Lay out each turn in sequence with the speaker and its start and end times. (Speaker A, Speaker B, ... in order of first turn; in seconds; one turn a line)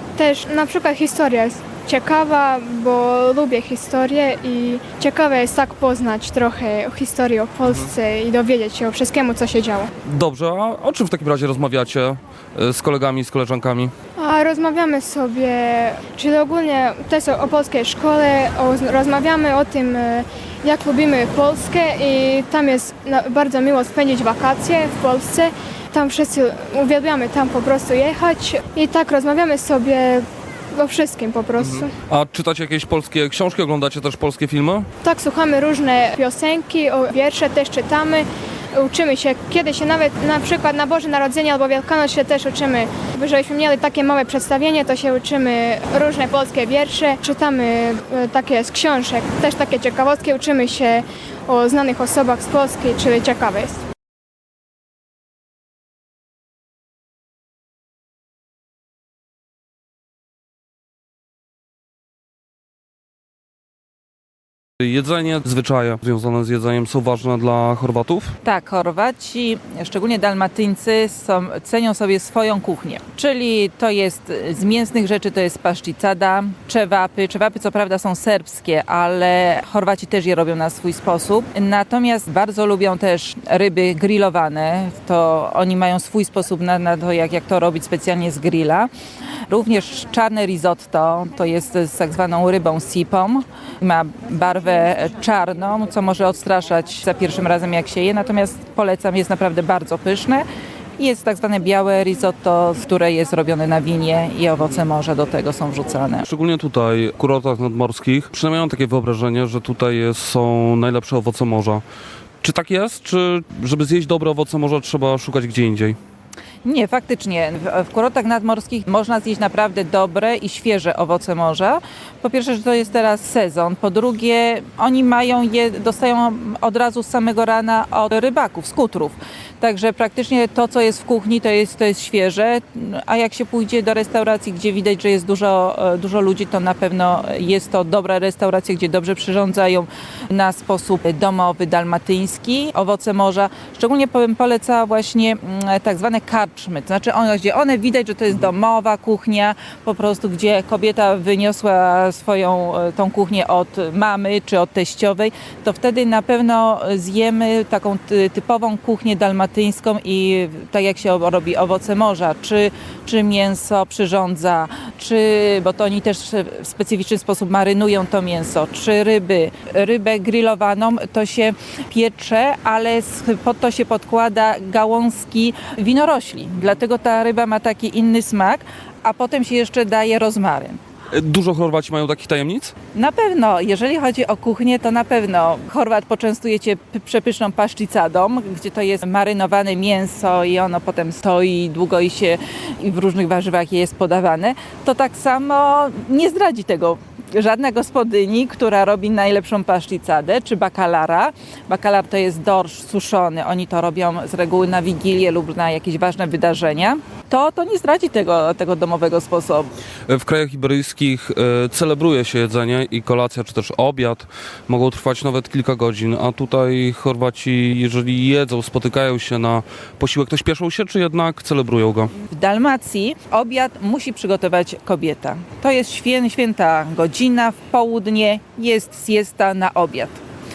Speaker A: 0.2-9.9
Speaker B: 10.1-13.9
Speaker A: 14.2-31.9
Speaker B: 31.6-34.9
Speaker A: 35.0-53.8
Speaker B: 64.8-68.3
Speaker C: 68.4-88.9
Speaker C: 89.5-100.5
Speaker C: 101.0-106.2
Speaker B: 106.3-111.8
Speaker B: 112.4-116.0
Speaker C: 116.6-180.8
Speaker B: 181.1-182.7
Speaker C: 182.9-209.7
Speaker B: 210.1-222.1
Speaker C: 222.3-230.2